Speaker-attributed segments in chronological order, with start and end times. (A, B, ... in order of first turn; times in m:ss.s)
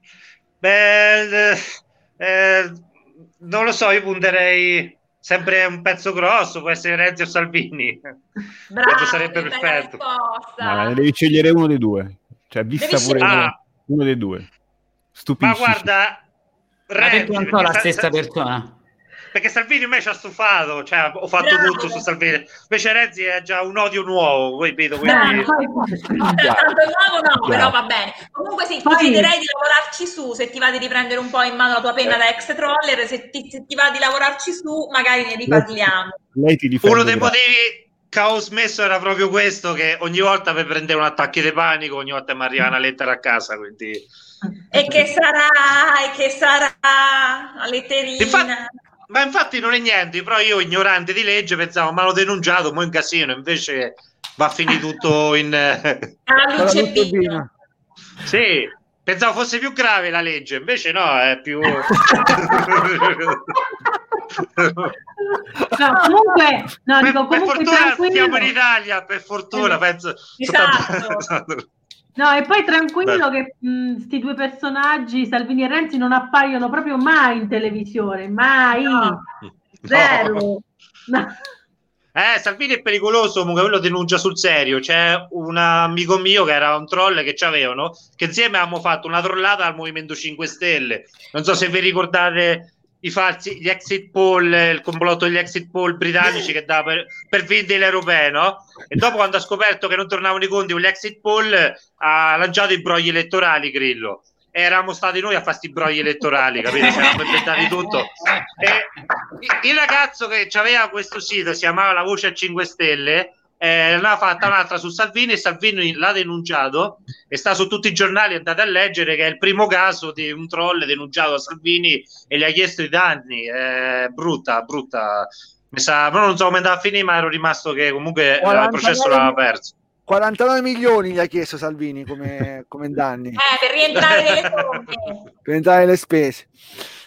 0:00.6-0:01.7 A
0:02.2-0:02.8 A
0:03.4-0:08.0 A
0:08.7-0:11.0 B
0:08.8-0:10.0 A
0:10.6-0:14.5 C
0:12.8-0:13.5 B
0:13.2-0:13.5 A
0:15.2-0:15.9 C
0:15.4-0:16.2 A
0:16.9-0:18.1 A
0:17.0-0:18.8 D
0:19.3-0:25.5 A
0:21.4-0:22.0 B
0:25.0-0:25.6 B
0:25.0-0:26.5 E
0:26.2-0:36.2 B
0:27.4-0:27.8 C
0:28.8-0:29.3 E
0:35.5-0:37.4 C
0:36.8-0:44.1 A
0:44.7-0:48.7 B
0:48.2-0:48.5 A
0:49.1-0:56.1 A
0:56.3-0:57.4 B
0:56.6-0:57.5 F
0:58.2-1:03.4 A
1:04.6-1:04.9 A
1:05.7-1:08.5 E
1:07.0-1:11.6 A
1:10.4-1:11.2 B
1:12.2-1:19.2 E
1:18.9-1:19.2 B
1:19.9-1:21.3 E
1:19.9-1:20.4 A
1:22.2-1:48.9 A
1:46.8-1:48.8 D
1:49.4-2:09.7 A
2:08.4-2:09.4 F
2:10.1-2:13.4 F
2:13.4-2:15.2 B
2:15.5-2:16.5 F